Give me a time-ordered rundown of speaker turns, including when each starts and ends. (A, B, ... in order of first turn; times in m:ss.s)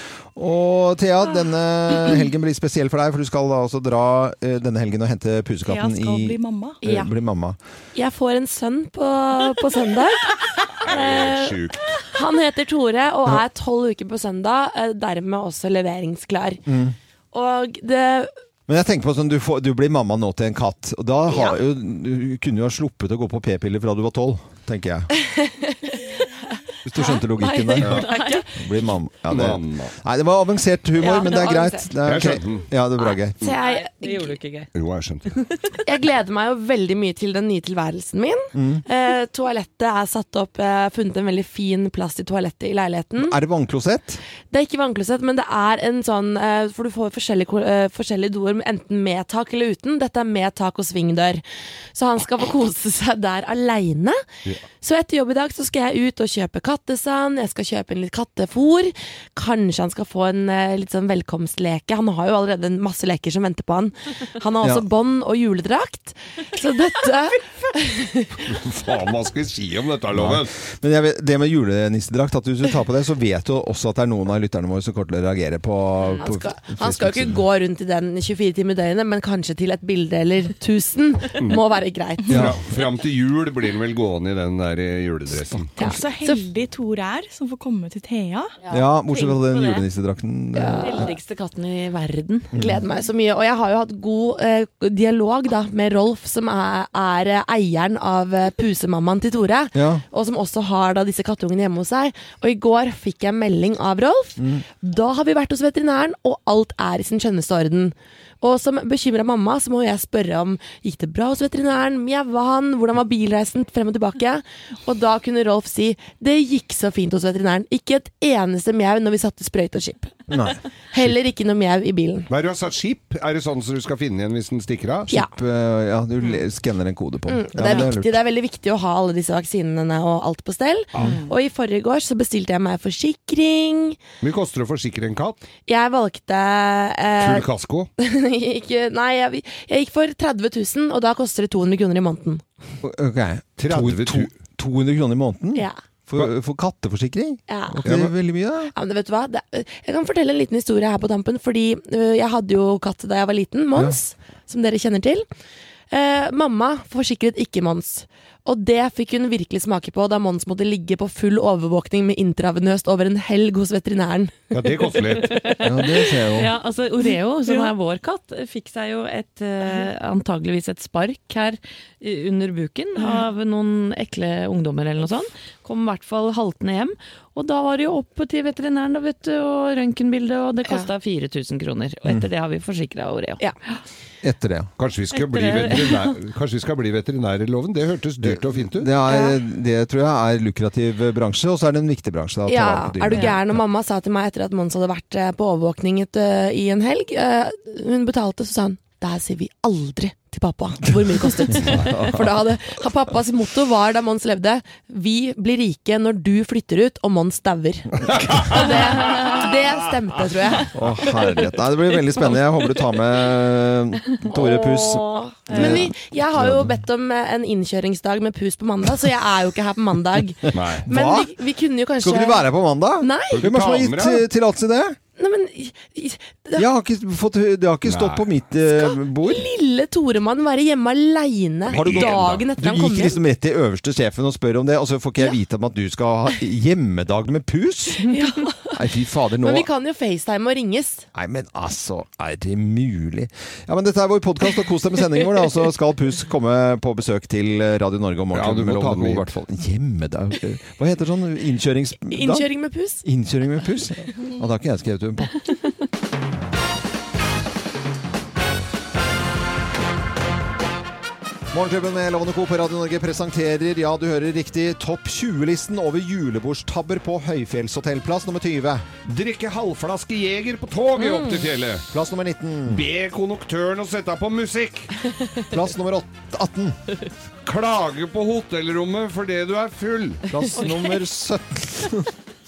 0:00.4-0:07.6 A
0:05.7-0:06.8 B
0:06.8-0:07.1 C
0:08.0-0:16.6 C
0:10.8-0:11.9 D
0:16.7-0:17.0 A
0:17.3-0:18.3 C
0:18.7-0:25.1 A
0:25.2-0:26.3 C
0:26.8-0:33.5 A
0:27.4-0:28.4 E
0:28.0-0:28.5 C
0:29.3-0:29.9 D
0:31.0-0:31.9 C
0:32.0-0:32.7 D
0:33.3-0:34.4 C
0:33.4-0:34.7 E
0:34.7-0:35.3 D
0:35.8-0:43.4 C
0:38.5-0:38.8 A
0:43.2-0:44.2 A
0:44.5-0:54.2 C
0:54.8-1:08.6 C
1:04.6-1:04.9 A
1:08.5-1:10.5 D
1:10.1-1:17.4 A
1:16.2-1:22.5 C
1:22.3-1:22.6 A
1:22.3-1:25.7 D
1:25.8-1:28.6 B
1:25.8-1:26.4 C
1:28.7-1:31.1 A
1:29.1-1:29.8 E
1:30.5-1:31.2 C
1:30.8-1:32.5 E
1:32.5-1:32.8 A
1:32.5-2:00.3 C
1:39.7-1:40.0 A
2:00.3-2:01.1 A
2:00.9-2:02.3 C
2:02.3-2:05.1 D
2:05.1-2:08.2 A
2:07.3-2:14.0 C
2:14.2-2:15.4 D
2:15.7-2:17.5 C
2:17.2-2:17.9 D
2:18.0-2:22.4 C
2:22.8-2:28.7 A
2:23.6-2:24.3 D
2:27.5-2:27.9 C
2:27.8-2:28.1 D
2:28.7-2:35.2 C
2:35.9-2:45.6 C
2:44.5-2:45.4 D
2:45.2-3:03.4 E
2:45.6-2:46.5 A
3:04.2-3:04.7 A
3:04.8-3:08.9 D
3:08.2-3:13.6 A
3:09.1-3:09.4 C
3:12.5-3:30.8 C
3:21.0-3:22.4 A
3:28.1-3:29.4 D
3:30.7-3:36.7 A
3:34.2-3:43.4 C
3:40.5-3:41.4 A
3:40.5-3:40.9 D
3:42.0-3:45.0 A
3:43.3-3:44.3 D
3:45.2-3:46.7 C
3:46.6-3:49.5 A
3:47.9-3:48.2 D
3:48.7-3:53.2 C
3:51.7-3:52.5 D
3:51.7-3:58.1 A
3:58.0-3:58.8 C
3:58.7-3:59.7 A
3:59.4-4:01.1 C
4:01.1-4:12.5 A
4:08.3-4:09.3 D
4:12.1-4:13.0 C
4:13.0-4:15.3 A
4:21.5-4:28.8 A
4:29.1-4:31.9 D
4:31.9-4:32.8 A
4:32.7-4:34.9 D
4:35.5-4:36.8 A
4:37.5-4:40.2 D
4:40.3-4:42.1 A
4:40.6-4:40.9 E